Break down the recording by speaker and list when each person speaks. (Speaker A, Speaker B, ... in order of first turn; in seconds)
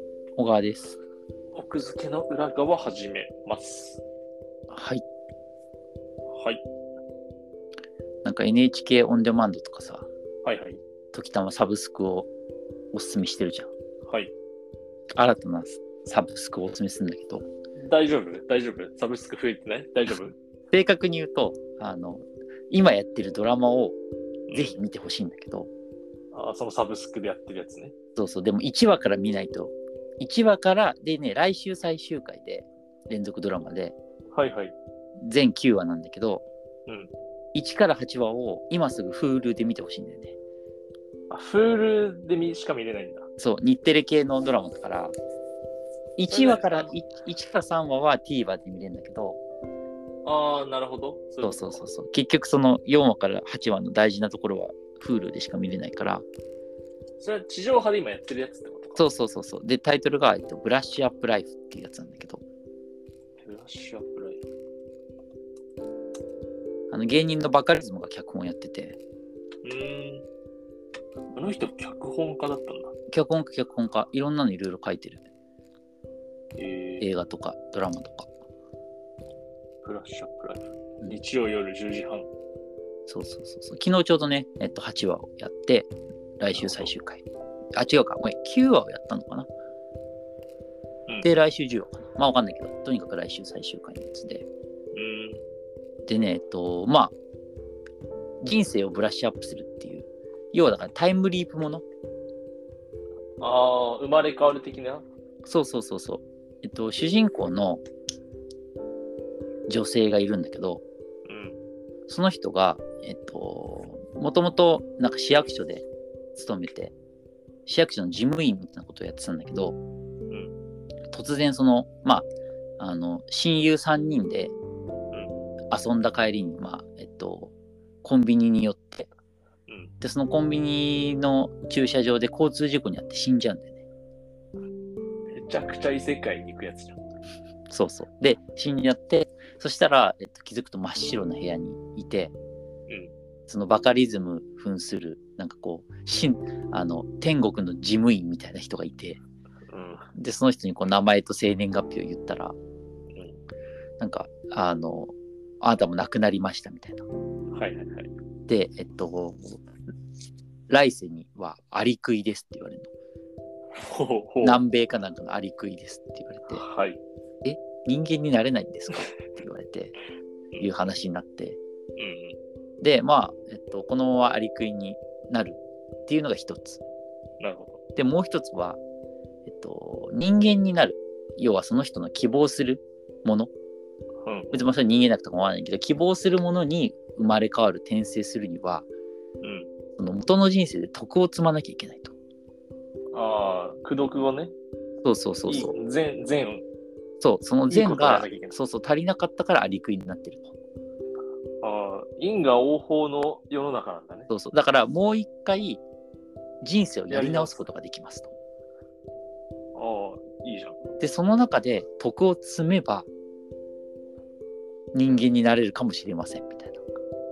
Speaker A: 0.4-1.0, 4.7-5.0, 8.2-10.1, 11.1-12.3, 12.9-13.7, 15.1-17.4, 20.7-24.0, 24.5-25.7, 28.2-34.0, 35.2-36.4, 37.5-40.4, 43.4-45.1, 46.2-49.4, 51.4-56.2, 59.0-62.4, 66.9-69.0, 73.1-75.2, 77.0-78.3, 83.1-87.2, 87.8-89.5, 91.2-94.5, 96.1-97.1, 98.4-101.8, 105.5-107.8, 109.7-110.8, 112.1-116.9, 117.7-119.8, 121.1-122.3, 122.8-124.5, 125.7-127.5, 128.0-129.1, 130.0-133.8, 137.7-142.3, 143.5-149.2, 150.2-152.6, 154.0-157.0, 158.5-159.7, 160.7-162.9, 164.4-166.6, 167.4-169.9, 170.6-171.6, 172.8-176.8, 178.0-178.8, 179.5-183.5, 184.5-188.9, 190.0-192.2, 195.0-195.8, 197.2-200.5, 204.3-205.8, 206.6-208.3, 211.0-213.1, 214.9-216.8
Speaker B: 1.5-4.0, 6.3-6.6, 10.4-10.8, 14.1-14.3, 17.8-20.4, 24.5-24.8, 26.3-27.9, 34.3-34.8, 41.3-43.3, 46.3-46.9, 50.2-51.8, 57.2-59.1, 63.4-64.5, 69.6-70.2, 71.3-72.9, 76.6-77.1, 79.8-82.3, 86.5-86.9, 94.9-95.4, 103.4-105.1, 111.3-111.6, 129.7-129.9, 135.3-137.0, 149.7-150.1, 153.1-153.4, 157.5-158.1, 163.8-164.6, 166.5-167.0, 172.0-172.4, 177.4-177.8, 184.2-184.7, 189.4-189.7, 193.1-194.5, 195.5-196.6, 197.7-198.6, 201.6-204.3, 207.1-207.7, 209.8-210.8